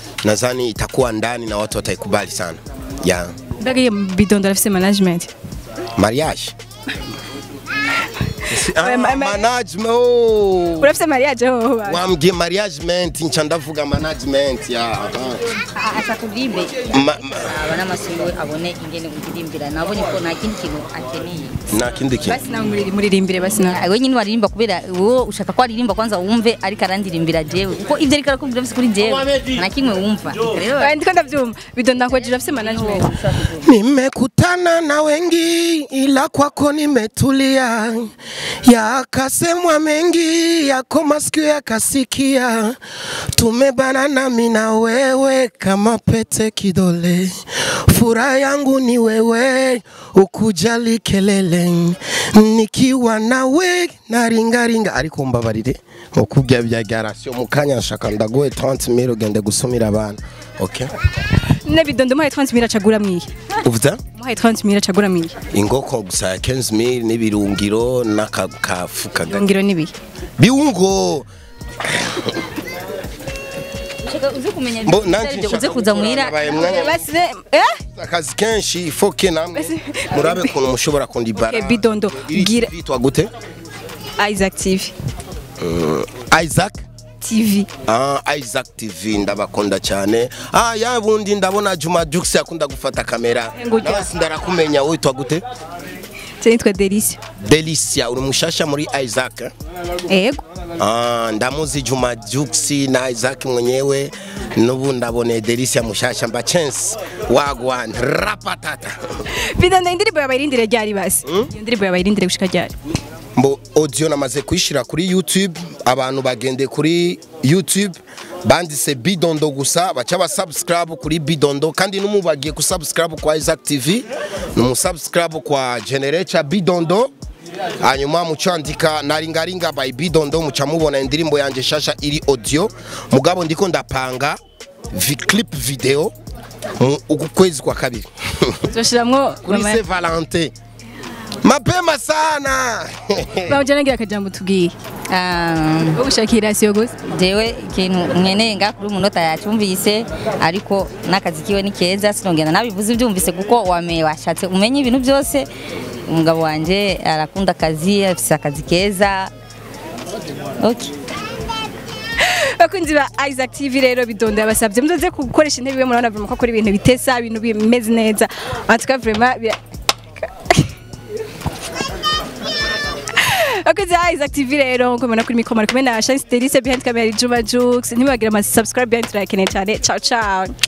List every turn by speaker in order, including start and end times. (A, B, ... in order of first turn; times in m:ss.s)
0:00.2-0:03.4 A
0:03.6-0:05.3 B
0:06.0-0:06.5 A
0:08.4-0:09.5 B
0:08.5-0:10.9 A
0:10.8-0:12.0 B
0:11.8-0:15.4 A
0:15.8-0:21.7 C
0:16.9-0:17.6 A
0:21.7-0:22.4 A
0:22.3-0:23.8 B
0:23.6-0:30.9 C
0:30.7-0:33.2 B
0:32.1-0:33.7 C
0:33.6-0:42.8 A
0:43.3-1:00.9 A
1:01.6-1:03.3 B
1:03.6-1:04.0 A
1:04.2-1:05.4 B
1:05.5-1:09.5 A
1:09.3-1:09.9 B
1:10.4-1:11.3 A
1:11.8-1:12.5 A
1:14.0-1:16.8 C
1:14.8-1:17.0 A
1:16.5-1:17.8 B
1:17.9-1:23.3 A
1:19.6-1:20.5 B
1:21.4-1:22.7 B
1:24.2-1:24.9 B
1:25.6-1:26.8 A
1:27.2-1:27.7 B
1:27.9-1:35.4 A
1:33.6-1:34.1 B
1:36.4-1:37.2 B
1:37.4-1:39.5 A
1:40.1-1:40.4 B
1:40.8-1:49.2 A
1:49.3-1:52.7 B
1:51.2-1:51.5 A
1:53.4-2:07.1 A
2:07.8-2:14.4 A
2:14.9-2:16.1 A
2:16.8-2:18.7 A
2:18.7-2:19.8 B
2:19.4-2:20.5 A
2:21.4-2:23.6 A
2:23.5-2:24.8 B
2:25.1-2:26.0 C
2:26.0-2:26.9 B
2:27.0-2:35.5 C
2:36.1-2:39.3 C
2:40.6-2:40.9 C
2:42.2-2:49.6 B
2:53.2-3:00.5 B